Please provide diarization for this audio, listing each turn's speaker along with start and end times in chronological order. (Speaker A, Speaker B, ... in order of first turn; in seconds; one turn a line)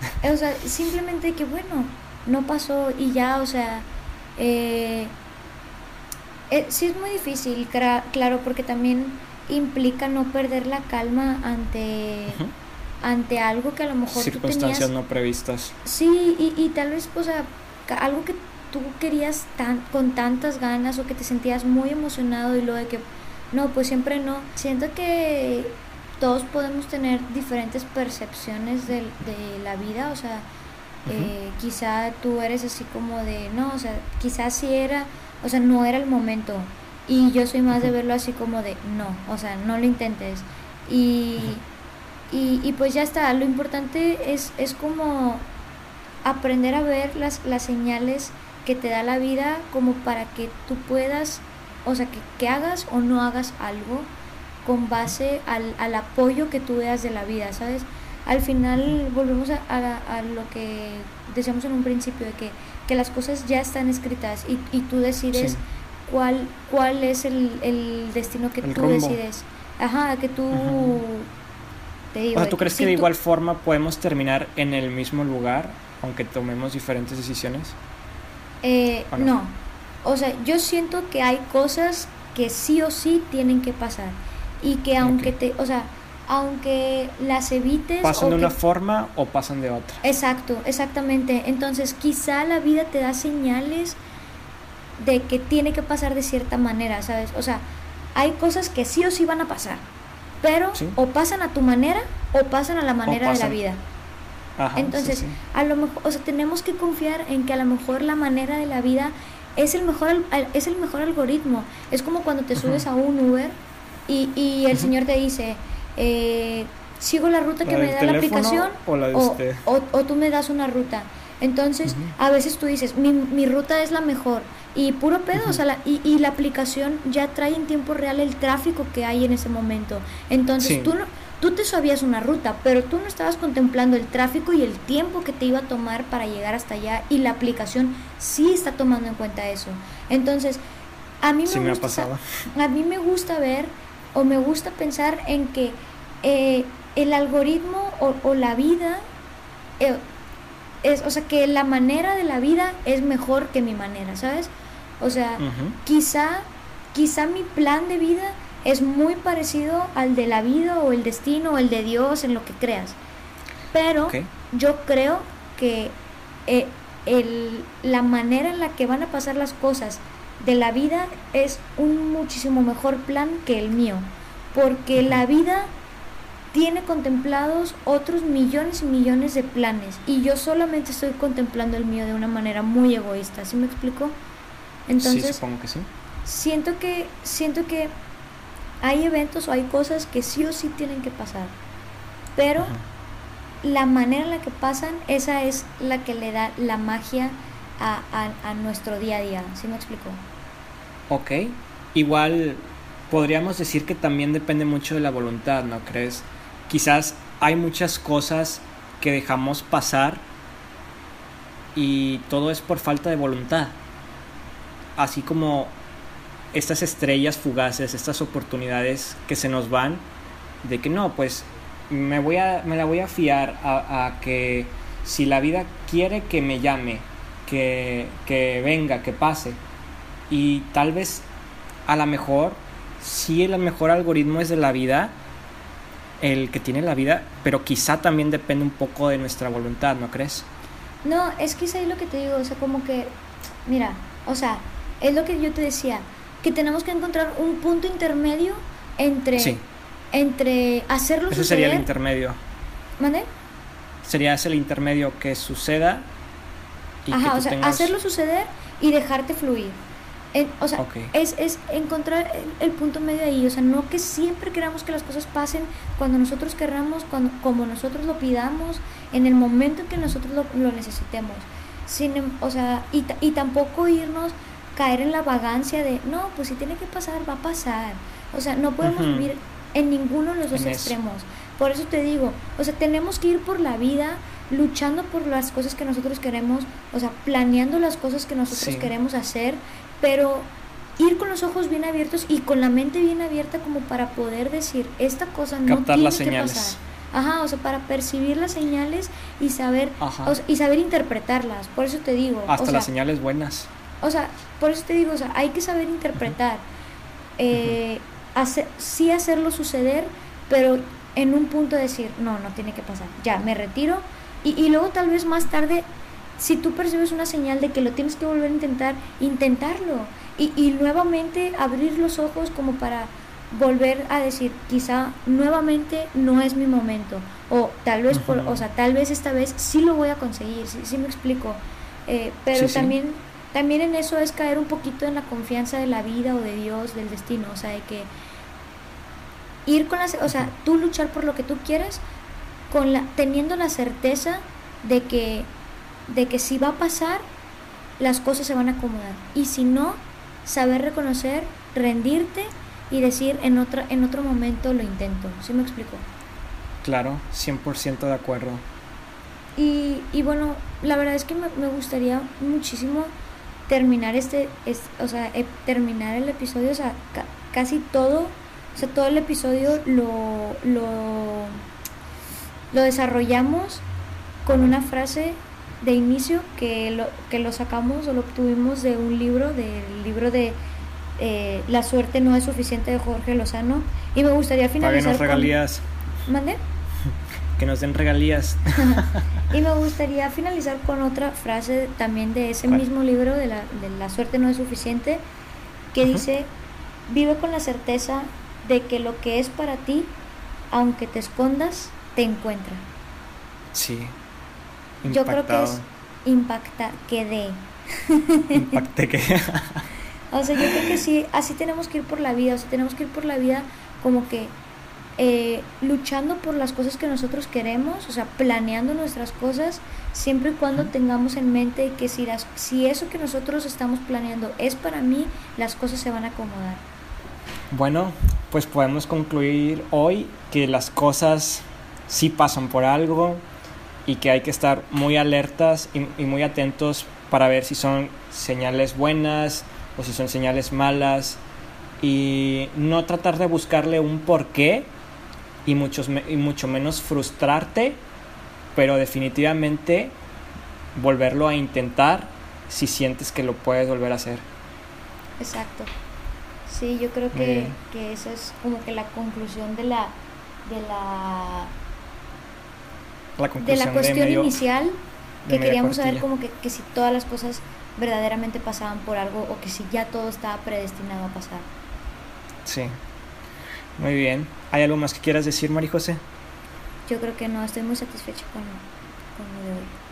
Speaker A: 0.2-3.9
Speaker A: 4.4-5.1
Speaker A: 6.5-12.4
Speaker A: 13.0-14.9
Speaker B: 14.1-15.7
Speaker A: 15.8-30.4
Speaker A: 31.1-41.6
Speaker A: 42.3-45.5
Speaker A: 46.2-54.1
Speaker A: 54.6-71.3
Speaker B: 65.3-65.6
Speaker B: 68.6-69.2
Speaker B: 70.5-71.0
Speaker A: 72.1-73.1
Speaker B: 72.3-77.8
Speaker A: 78.6-88.5
Speaker B: 85.0-85.3
Speaker B: 88.0-90.0
Speaker A: 90.0-94.0
Speaker A: 95.0-97.6
Speaker A: 98.1-99.8
Speaker A: 100.4-103.8
Speaker B: 103.0-103.6
Speaker B: 104.6-105.3
Speaker A: 104.8-113.5
Speaker B: 112.6-112.8
Speaker A: 114.1-140.6
Speaker B: 117.6-119.6
Speaker B: 121.9-122.1
Speaker B: 130.6-130.9
Speaker A: 141.2-149.0
Speaker B: 141.4-142.2
Speaker A: 150.8-162.9
Speaker B: 155.4-155.8
Speaker A: 163.7-165.9
Speaker A: 166.5-175.7
Speaker A: 176.5-184.2
Speaker A: 184.9-185.4
Speaker B: 185.0-185.9
Speaker A: 186.2-187.9
Speaker A: 188.8-191.5
Speaker A: 192.3-192.8
Speaker A: 193.6-200.2
Speaker B: 201.1-210.2
Speaker B: 211.7-213.8
Speaker B: 214.9-215.7
Speaker B: 216.5-220.0
Speaker B: 220.6-229.6
Speaker B: 230.3-231.2
Speaker B: 231.8-235.1
Speaker B: 236.2-240.5
Speaker A: 241.0-243.1
Speaker A: 243.7-249.6
Speaker B: 249.4-249.6
Speaker A: 250.1-251.9
Speaker B: 251.3-252.4
Speaker A: 253.0-253.3
Speaker B: 254.0-256.1
Speaker B: 257.0-257.9
Speaker A: 257.1-259.8
Speaker A: 260.3-302.9
Speaker B: 260.8-261.1
Speaker B: 278.8-279.3
Speaker B: 280.5-280.9
Speaker B: 288.5-288.9
Speaker B: 295.7-296.8
Speaker B: 300.0-300.4
Speaker B: 302.5-303.7
Speaker A: 304.0-306.6
Speaker A: 307.4-315.8
Speaker A: 316.4-338.1
Speaker B: 328.1-328.6
Speaker B: 332.5-332.9
Speaker A: 339.6-342.0
Speaker A: 342.7-345.5
Speaker A: 346.1-347.2
Speaker A: 348.0-356.0
Speaker B: 356.8-358.6
Speaker A: 359.6-363.1
Speaker A: 363.7-371.6
Speaker A: 372.7-373.8
Speaker A: 374.4-380.6
Speaker A: 381.2-385.5
Speaker B: 384.8-385.8
Speaker A: 386.2-386.6
Speaker B: 387.6-389.2
Speaker A: 388.8-395.2
Speaker A: 395.9-396.5
Speaker A: 397.1-400.1
Speaker A: 400.7-402.8
Speaker B: 403.7-404.1
Speaker A: 405.0-408.8
Speaker B: 405.0-405.8
Speaker B: 408.5-409.9
Speaker A: 410.3-414.5
Speaker B: 410.5-411.0
Speaker A: 415.2-426.8
Speaker B: 427.7-433.4
Speaker B: 434.1-441.4
Speaker B: 442.0-444.9
Speaker B: 445.6-448.0
Speaker B: 448.7-450.1
Speaker B: 450.9-454.4
Speaker A: 455.4-455.9
Speaker A: 456.7-460.1
Speaker B: 457.3-457.8
Speaker A: 460.6-461.7
Speaker B: 463.4-464.6
Speaker A: 463.6-471.6
Speaker B: 465.4-466.2
Speaker B: 472.6-472.9
Speaker B: 474.0-476.2
Speaker A: 477.1-478.8
Speaker A: 479.4-479.9